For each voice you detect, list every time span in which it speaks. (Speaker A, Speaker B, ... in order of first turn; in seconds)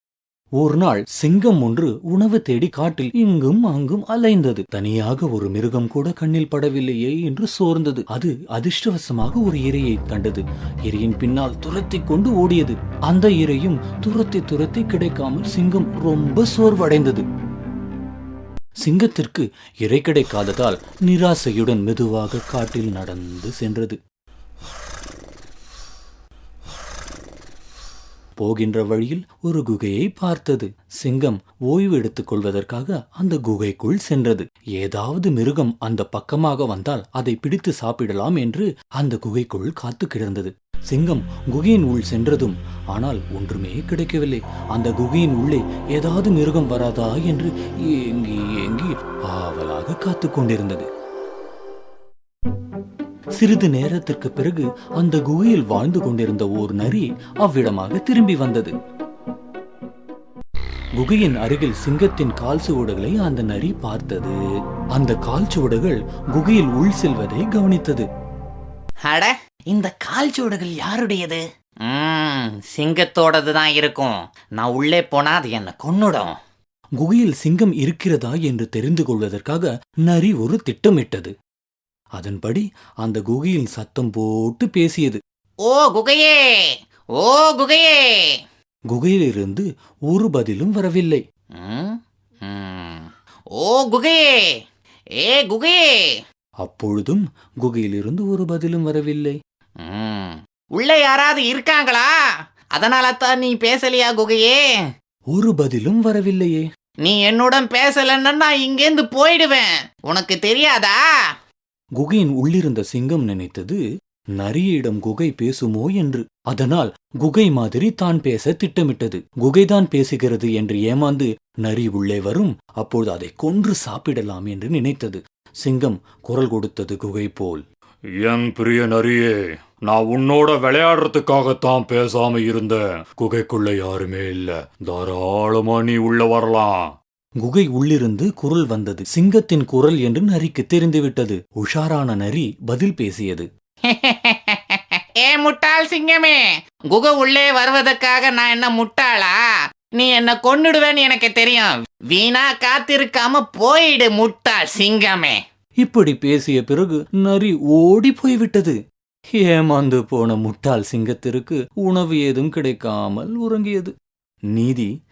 Speaker A: 0.6-17.2, 18.8-24.0, 28.4-50.9, 53.4-58.7, 61.0-64.4, 65.0-68.1, 77.0-81.3, 82.2-85.2, 88.9-91.2, 96.6-99.4, 105.3-106.6, 112.0-113.8, 114.4-127.6, 137.4-143.5, 155.8-158.8, 159.4-163.9, 164.5-164.9
Speaker B: 69.1-76.3, 85.7-88.4, 91.6-94.5, 95.2-96.2, 99.8-102.1, 102.8-104.6, 107.0-111.0, 143.9-149.4, 150.0-155.4
Speaker C: 128.2-136.8